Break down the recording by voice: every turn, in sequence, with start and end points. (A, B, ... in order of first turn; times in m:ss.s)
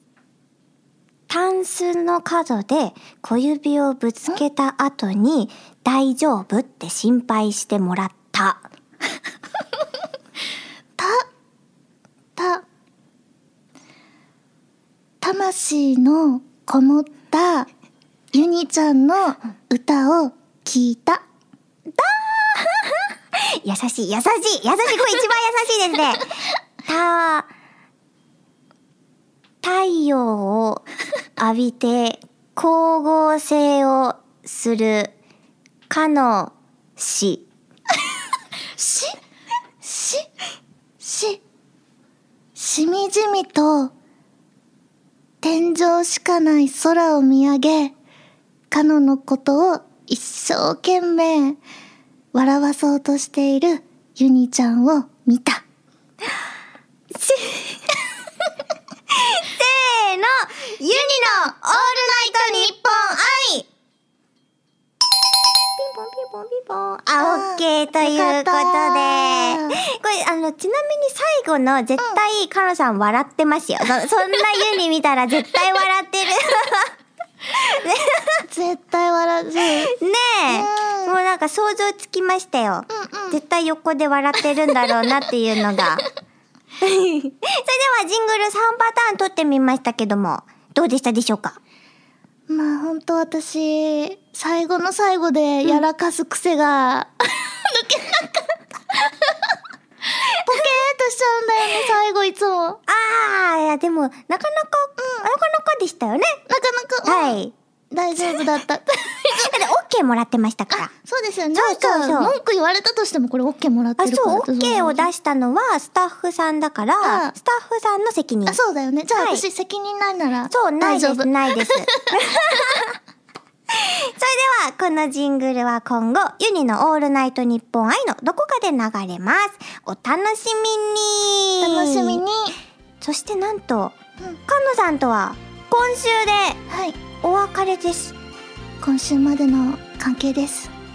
0:01.3-0:08.6 A
0:11.0-0:11.2 B
0:12.4-0:12.6 B
0:15.2-0:17.7 B
0:18.3-0:21.2 B
0:22.0-0:27.5 A
0:29.6-0:30.8 A
0:31.4-0:35.1 A
0:35.9-0:37.5 A
0:38.8-0:39.1 B
0:39.8-0:40.2 B
0:41.0-0:41.4 B
0:42.6-0:43.9 B
0:45.4-0:47.9 B
0:48.7-0:51.6 B
0:52.3-0:55.6 B
0:57.2-0:57.8 A
0:59.1-1:03.7 A
1:06.1-1:09.8 B
1:06.8-1:16.9 A
1:17.5-1:18.4 A
1:18.5-1:19.9 B
1:19.9-1:26.1 A
1:20.5-1:21.1 B
1:22.9-1:23.4 B
1:26.8-1:31.6 A
1:32.5-1:39.5 B
1:40.4-1:42.8 B
1:42.9-1:46.4 A
1:45.0-1:45.2 B
1:46.5-1:47.4 B
1:47.0-1:47.5 A
1:47.9-1:49.7 B
1:49.3-1:50.9 A
1:50.7-1:55.1 B
1:51.5-1:52.4 A
1:54.0-1:58.6 A
1:57.0-1:57.3 B
1:58.5-2:01.3 B
1:59.1-1:59.4 A
2:00.5-2:03.0 A
2:03.7-2:12.2 A
2:11.6-2:12.5 B
2:13.0-2:16.6 A
2:16.7-2:17.0 B
2:17.2-2:18.1 A
2:18.8-2:20.7 B